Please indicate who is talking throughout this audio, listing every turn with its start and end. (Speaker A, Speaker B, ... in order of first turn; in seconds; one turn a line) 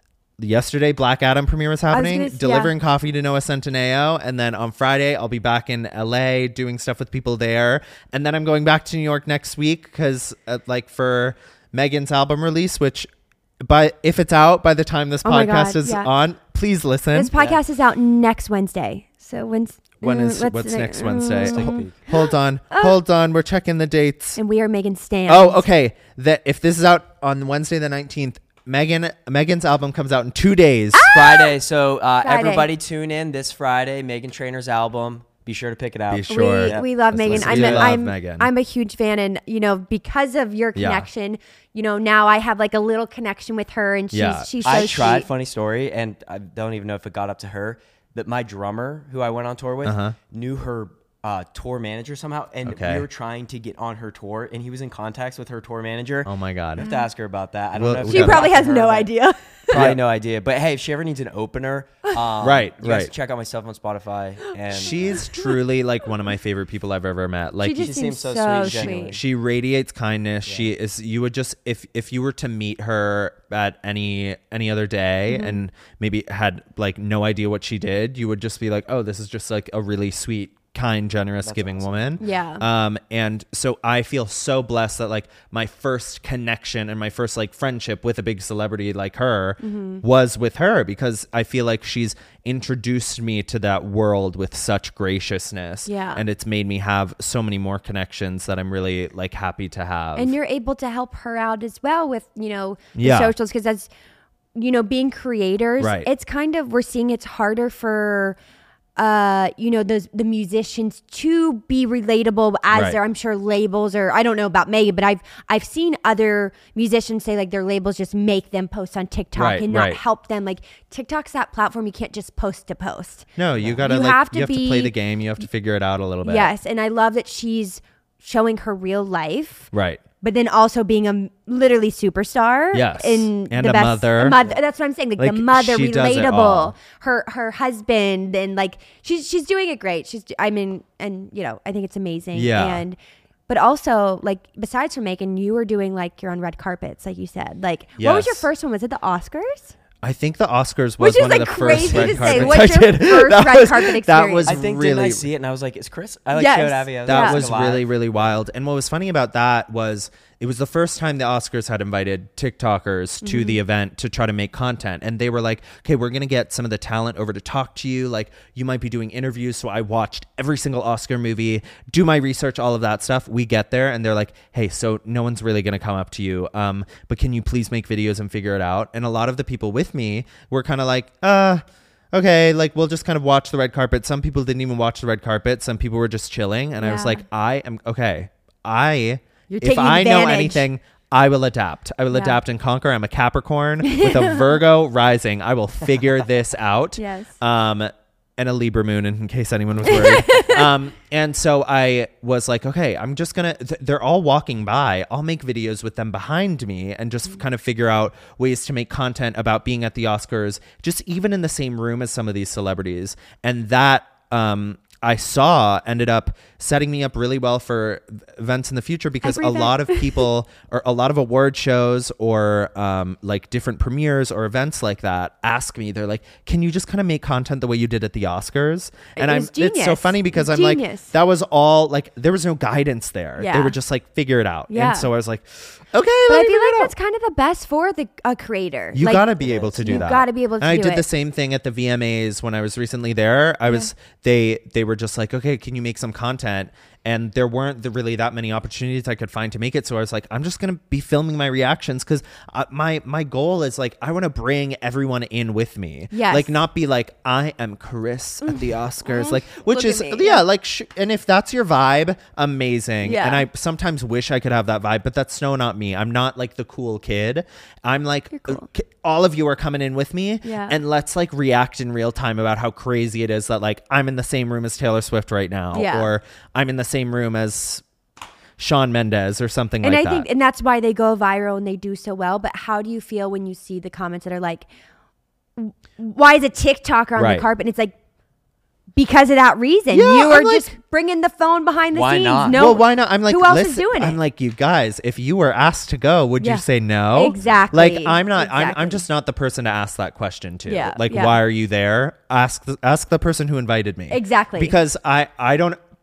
Speaker A: 0.4-13.1
Speaker B: 1.9-2.7
Speaker A: 13.6-17.3
Speaker B: 15.2-16.1
Speaker B: 17.1-23.0
Speaker C: 17.3-17.6
Speaker A: 20.0-24.4
Speaker C: 21.4-22.0
Speaker B: 24.4-25.6
Speaker A: 25.3-31.1
Speaker B: 30.9-31.5
Speaker C: 31.1-37.9
Speaker B: 32.2-32.7
Speaker A: 36.1-38.5
Speaker B: 36.3-45.3
Speaker A: 40.7-41.1
Speaker A: 44.1-44.9
Speaker C: 44.6-59.1
Speaker A: 49.8-50.1
Speaker A: 52.6-53.1
Speaker A: 56.2-56.9
Speaker B: 56.8-57.1
Speaker A: 57.7-58.5
Speaker B: 58.0-59.8
Speaker C: 59.7-65.2
Speaker A: 59.7-60.0
Speaker A: 62.4-63.1
Speaker A: 64.7-67.9
Speaker B: 64.7-65.6
Speaker B: 67.6-69.2
Speaker C: 67.8-69.2
Speaker A: 68.6-100.3
Speaker C: 70.4-70.7
Speaker B: 75.3-75.6
Speaker C: 81.4-82.2
Speaker B: 82.2-82.6
Speaker B: 89.6-90.0
Speaker B: 95.8-96.2
Speaker B: 100.2-103.9
Speaker A: 102.9-103.3
Speaker B: 104.5-108.4
Speaker A: 105.8-106.1
Speaker B: 109.0-123.3
Speaker A: 112.7-113.0
Speaker A: 119.3-120.0
Speaker A: 123.4-126.5
Speaker B: 123.8-124.9
Speaker B: 126.2-143.0
Speaker A: 129.7-130.0
Speaker A: 132.7-134.4
Speaker A: 135.2-136.7
Speaker A: 142.3-142.8
Speaker B: 143.5-149.7
Speaker A: 148.0-148.5
Speaker A: 150.0-155.3
Speaker B: 151.0-154.6
Speaker C: 152.2-152.5
Speaker C: 154.5-157.9
Speaker B: 156.3-157.4
Speaker A: 157.1-236.9
Speaker B: 163.2-163.6
Speaker B: 186.8-187.2
Speaker B: 189.5-190.7
Speaker B: 192.1-192.4
Speaker B: 193.8-194.5
Speaker B: 197.0-197.3
Speaker B: 199.8-200.6
Speaker B: 219.2-220.3
Speaker B: 229.2-231.1
Speaker B: 233.4-233.8
Speaker B: 234.7-235.1
Speaker B: 236.3-241.1
Speaker A: 238.9-277.8
Speaker C: 239.4-240.1
Speaker B: 256.1-256.5
Speaker B: 258.4-260.4
Speaker B: 263.0-263.4
Speaker B: 268.3-268.7
Speaker B: 270.4-270.8
Speaker B: 275.7-276.1
Speaker A: 278.6-280.3
Speaker B: 279.8-284.7
Speaker B: 285.6-287.9
Speaker A: 287.1-287.4
Speaker B: 288.9-294.2
Speaker A: 289.9-290.7
Speaker C: 291.9-292.8
Speaker A: 292.5-305.8
Speaker B: 296.4-299.0
Speaker B: 300.7-301.4
Speaker B: 304.1-304.7